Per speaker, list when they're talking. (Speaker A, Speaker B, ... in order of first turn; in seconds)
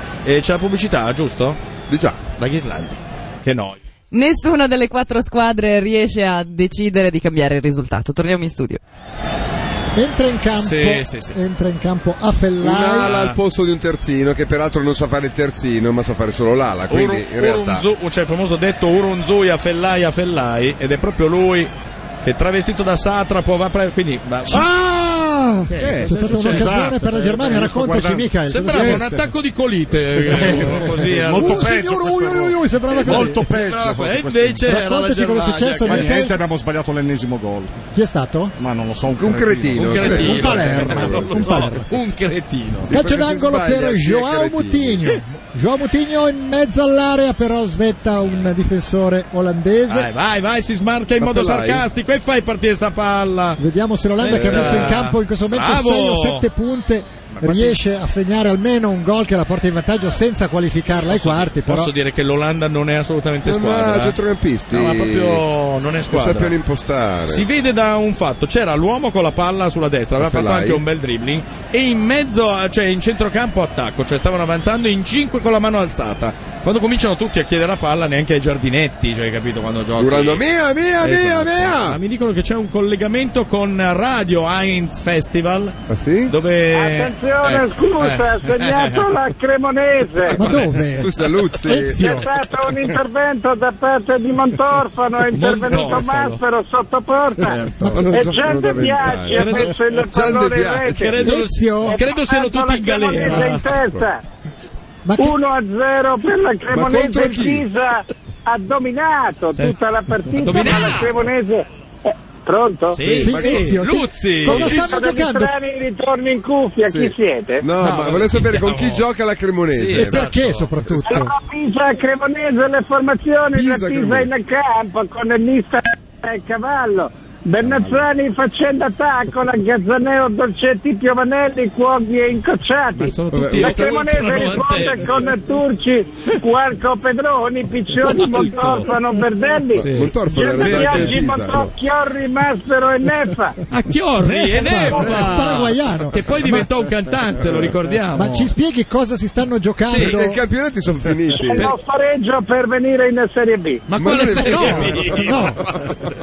Speaker A: 0.2-1.6, 2.3-3.8, 10.6-11.4, 13.0-13.4, 16.9-21.7, 22.2-24.7, 25.7-26.9, 28.5-31.7, 33.0-36.1, 39.7-42.9, 49.9-53.6, 54.2-56.5, 57.3-57.8, 61.1-64.2, 64.7-66.5, 67.3-80.4, 81.0-85.8, 86.3-89.1, 90.4-90.7, 95.3-96.4, 99.3-100.3, 100.9-103.7, 110.4-111.2, 112.9-114.9, 117.8-119.0, 119.7-121.0, 132.9-135.3, 138.0-138.9, 139.8-141.5, 143.7-148.5, 149.9-150.2, 153.9-156.1
Speaker B: 1.9-2.3, 12.6-17.8, 39.1-41.7, 42.8-45.0, 51.2-51.9, 54.3-55.0, 63.4-65.4, 66.1-67.5, 70.2-70.8, 80.0-82.0, 85.9-86.3, 90.5-92.2, 97.9-101.3, 103.2-104.0, 106.7-107.7, 113.2-113.7, 116.9-120.3, 123.5-124.3, 133.3-134.5, 139.8-141.7, 144.8-145.2, 149.9-151.7, 153.9-155.5
Speaker C: 4.1-8.8
Speaker D: 9.9-13.1, 24.5-29.2, 30.5-33.5, 34.7-36.4, 37.9-38.5, 40.0-41.9, 42.9-50.1, 53.6-61.9, 90.3-92.3, 97.8-98.2, 101.2-102.0, 105.0-105.4, 113.1-115.5, 119.9-121.3, 144.2-146.7, 148.1-150.4, 154.4-155.6
Speaker E: 26.0-29.2, 30.2-34.7, 35.8-37.8, 38.6-40.2
Speaker F: 86.7-90.3, 92.0-97.5, 98.1-101.1, 101.8-104.2, 105.2-113.0, 114.5-117.6, 121.1-143.6, 151.3-153.9